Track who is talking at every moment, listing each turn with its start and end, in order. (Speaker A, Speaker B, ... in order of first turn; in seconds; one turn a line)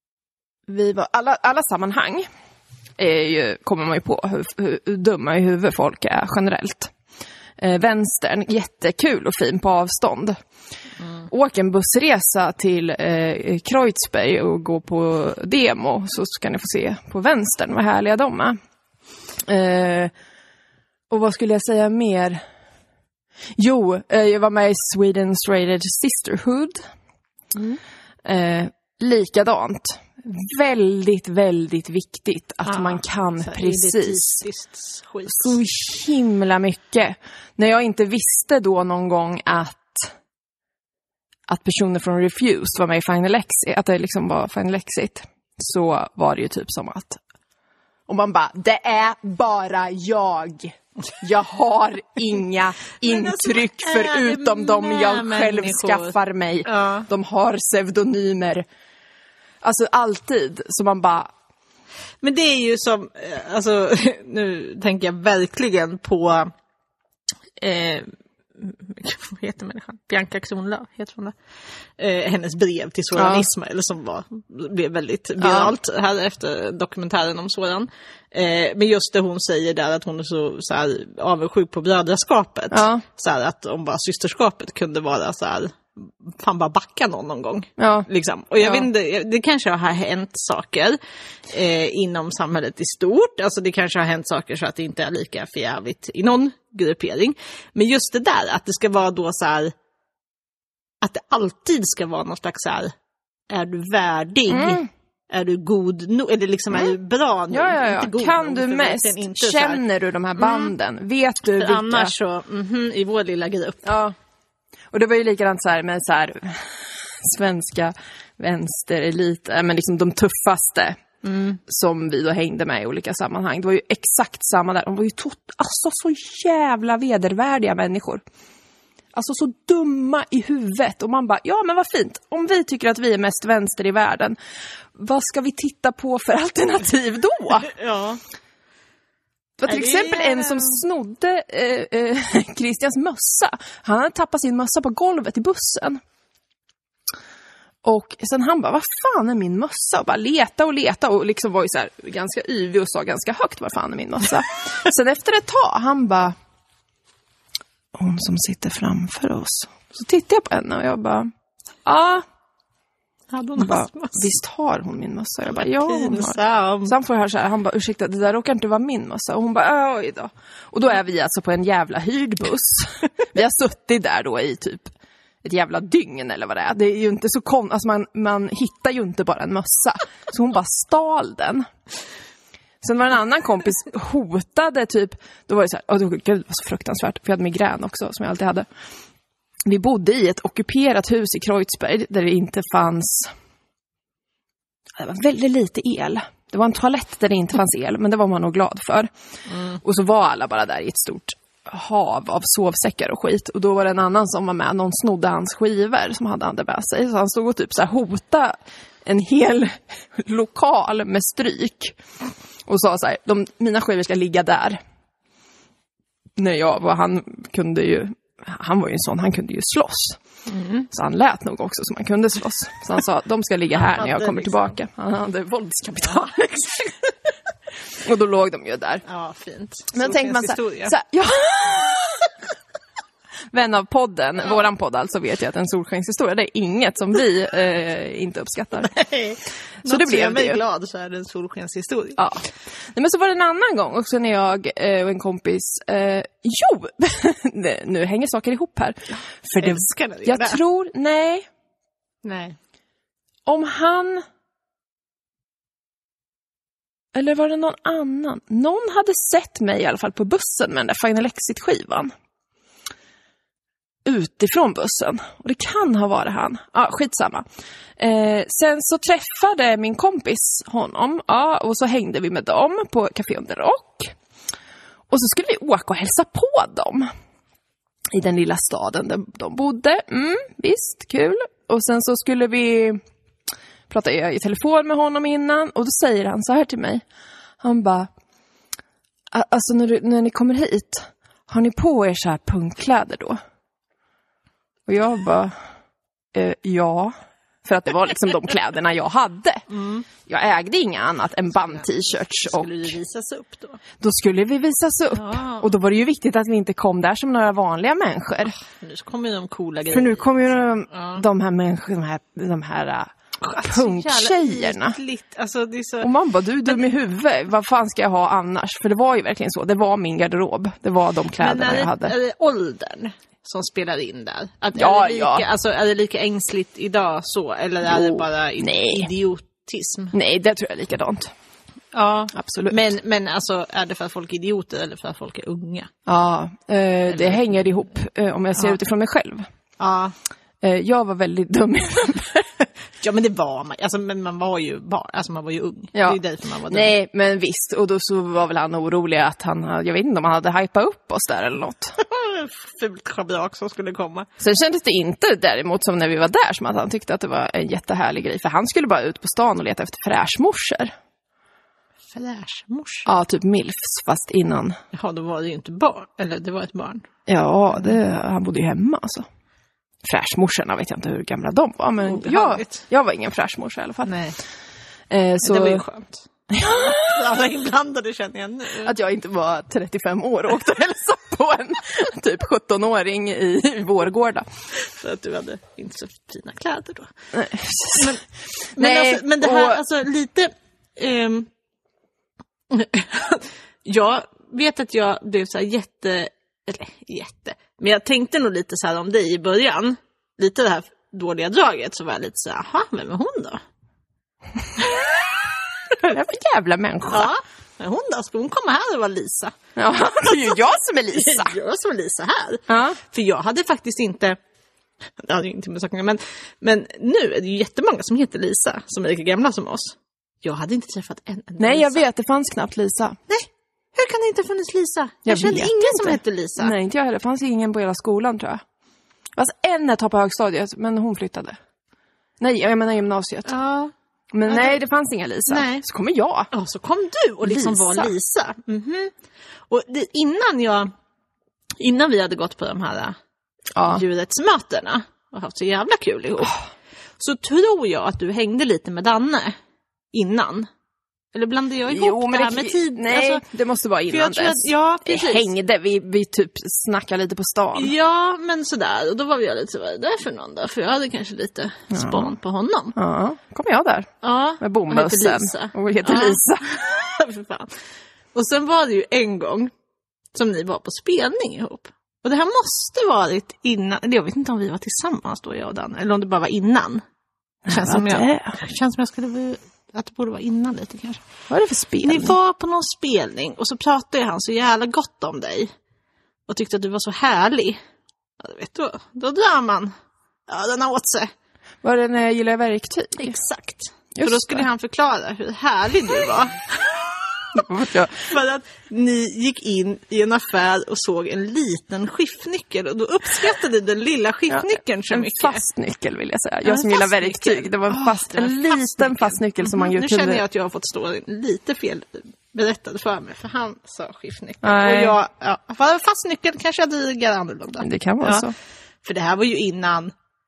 Speaker A: 0.7-2.3
Speaker A: 3.0-6.9
Speaker A: 7.6-10.4
Speaker A: 11.3-18.6
Speaker A: 19.5-20.1
Speaker A: 21.1-22.4
Speaker A: 23.6-26.9
Speaker A: 28.2-34.4
Speaker B: 32.7-35.6
Speaker A: 35.3-40.1
Speaker A: 41.5-47.2
Speaker A: 48.1-58.7
Speaker B: 53.0-56.1
Speaker B: 56.7-57.1
Speaker A: 59.6-61.3
Speaker B: 62.2-66.5
Speaker B: 67.6-71.3
Speaker B: 72.0-91.0
Speaker A: 73.2-73.5
Speaker A: 75.4-75.7
Speaker A: 82.7-83.0
Speaker A: 87.8-88.1
Speaker A: 88.6-88.9
Speaker B: 91.5-99.7
Speaker B: 101.0-102.9
Speaker B: 103.5-109.8
Speaker A: 104.5-104.9
Speaker A: 107.5-112.1
Speaker B: 110.4-110.7
Speaker B: 111.5-113.9
Speaker A: 113.8-114.2
Speaker A: 114.9-121.0
Speaker B: 121.2-121.6
Speaker A: 121.7-128.2
Speaker A: 129.1-134.4
Speaker A: 134.9-137.7
Speaker B: 137.7-138.2
Speaker A: 139.6-146.0
Speaker B: 139.7-140.8
Speaker A: 147.8-156.4
Speaker A: 157.9-161.3
Speaker A: 161.8-162.2
Speaker B: 163.3-164.3
Speaker A: 163.6-174.9
Speaker B: 165.5-166.9
Speaker A: 175.4-181.7
Speaker A: 182.8-188.7
Speaker A: 189.7-193.3
Speaker A: 195.0-199.1
Speaker A: 199.7-212.0
Speaker A: 212.7-214.8
Speaker A: 216.4-220.2
Speaker B: 220.5-220.9
Speaker A: 220.9-227.0
Speaker B: 223.7-224.8
Speaker A: 228.0-229.0
Speaker B: 229.1-231.0
Speaker A: 229.9-232.3
Speaker A: 233.5-238.9
Speaker B: 238.8-242.2
Speaker A: 239.8-240.6
Speaker A: 242.2-251.5
Speaker B: 249.6-250.6
Speaker B: 252.2-252.6
Speaker A: 253.5-254.2
Speaker A: 257.1-262.1
Speaker A: 264.1-267.4
Speaker A: 268.0-274.1
Speaker A: 275.1-277.1
Speaker A: 278.1-283.0
Speaker A: 283.9-287.0
Speaker A: 287.6-288.1
Speaker A: 289.3-293.4
Speaker A: 294.9-295.6
Speaker A: 296.3-299.6
Speaker B: 299.7-300.1
Speaker A: 300.3-302.9
Speaker B: 301.6-303.8
Speaker A: 304.0-308.6
Speaker B: 305.1-305.7
Speaker B: 308.4-310.3
Speaker A: 309.9-315.0
Speaker B: 310.9-311.2
Speaker B: 313.4-316.1
Speaker A: 316.0-322.1
Speaker B: 321.4-330.1
Speaker A: 324.8-325.5
Speaker A: 327.9-329.1
Speaker A: 330.1-331.3
Speaker B: 331.9-335.9
Speaker A: 332.3-332.8
Speaker A: 336.1-339.5
Speaker B: 337.1-337.6
Speaker B: 339.8-340.1
Speaker A: 340.6-342.5
Speaker B: 343.0-346.9
Speaker A: 345.9-352.0
Speaker B: 352.0-354.3
Speaker A: 354.4-360.9
Speaker B: 362.1-363.1
Speaker A: 363.1-364.8
Speaker B: 364.9-367.0
Speaker A: 367.3-369.3
Speaker A: 370.0-374.1
Speaker B: 372.0-372.8
Speaker B: 374.1-374.4
Speaker A: 375.1-375.8
Speaker B: 375.4-378.9
Speaker A: 376.5-377.2
Speaker A: 378.8-384.5
Speaker B: 384.8-387.1
Speaker A: 387.3-388.2
Speaker B: 387.9-388.2
Speaker A: 388.7-389.8
Speaker B: 388.8-391.5
Speaker B: 392.7-403.6
Speaker A: 406.0-407.3
Speaker B: 407.1-409.6
Speaker A: 409.8-411.6
Speaker B: 410.1-414.4
Speaker A: 412.7-413.0
Speaker B: 415.2-422.1
Speaker A: 421.6-423.2
Speaker B: 423.3-426.8
Speaker A: 425.3-428.6
Speaker A: 429.4-431.6
Speaker A: 432.4-433.5
Speaker B: 433.5-433.9
Speaker A: 434.3-436.5
Speaker B: 434.5-434.8
Speaker B: 435.5-435.9
Speaker B: 436.5-439.1
Speaker A: 437.4-438.1
Speaker B: 439.7-440.9
Speaker B: 441.8-443.2
Speaker A: 443.8-444.0
Speaker B: 443.9-446.6
Speaker B: 447.2-449.6
Speaker B: 450.1-450.7
Speaker B: 451.3-453.4
Speaker A: 451.9-457.9
Speaker B: 454.1-455.5
Speaker B: 457.8-462.9
Speaker A: 461.9-462.3
Speaker A: 462.9-466.9
Speaker B: 464.2-467.7
Speaker B: 468.3-469.7
Speaker B: 470.3-477.0
Speaker A: 477.7-478.5
Speaker B: 477.7-481.2
Speaker A: 481.5-482.4
Speaker B: 482.0-485.7
Speaker B: 486.5-487.8
Speaker B: 488.4-489.9
Speaker B: 490.5-491.3
Speaker A: 491.8-493.4
Speaker B: 493.2-497.6
Speaker A: 494.1-494.6
Speaker A: 497.5-498.3
Speaker B: 498.3-505.6
Speaker A: 504.5-510.4
Speaker B: 506.6-518.5
Speaker A: 514.6-515.2
Speaker A: 517.8-518.5
Speaker B: 519.0-520.1